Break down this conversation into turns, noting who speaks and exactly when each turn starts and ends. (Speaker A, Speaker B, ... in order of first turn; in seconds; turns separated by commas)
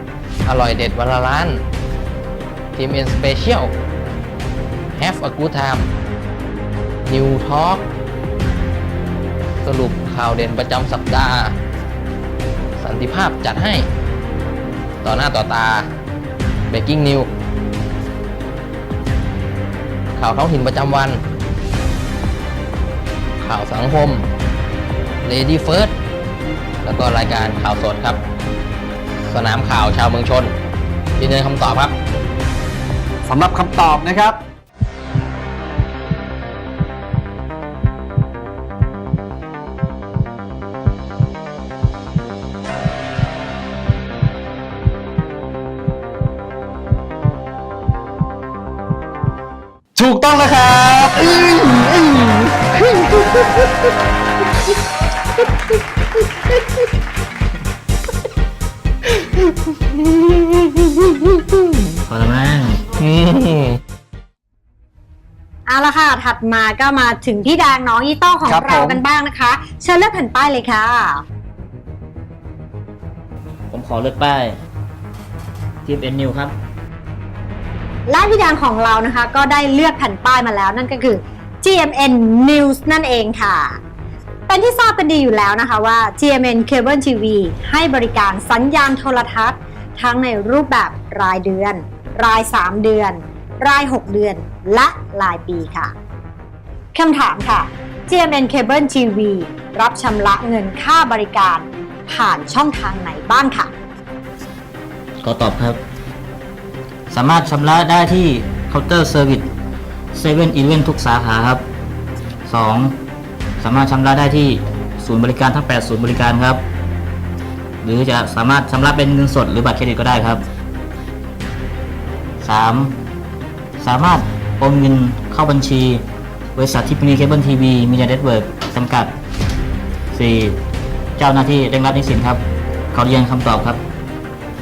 Speaker A: 0.5-1.6, Speaker A: 2.8-3.7, Speaker A: 5.0-5.9, Speaker A: 7.1-7.9, Speaker A: 9.6-11.6, Speaker A: 12.8-13.9, Speaker A: 15.0-15.9, Speaker A: 16.7-17.3, Speaker A: 20.2-21.2, Speaker A: 23.4-24.2, Speaker A: 25.2-25.9, Speaker A: 26.8-28.2, Speaker A: 29.3-30.5, Speaker A: 31.2-31.9, Speaker B: 33.3-34.4, Speaker B: 50.0-52.4, Speaker C: 62.1-62.8, Speaker A: 63.0-63.8, Speaker D: 65.7-71.2, Speaker B: 68.5-69.0, Speaker C: 73.7-74.6, Speaker C: 75.8-76.5, Speaker D: 78.1-83.8, Speaker D: 84.5-95.9, Speaker D: 96.9-103.7, Speaker C: 105.2-105.8, Speaker C: 107.1-109.5, Speaker C: 110.1-111.6, Speaker C: 112.5-113.0, Speaker C: 113.6-116.6, Speaker C: 117.8-120.4, Speaker C: 122.4-123.0, Speaker C: 123.8-126.0, Speaker C: 126.6-129.1, Speaker C: 130.1-130.6, Speaker C: 131.2-133.8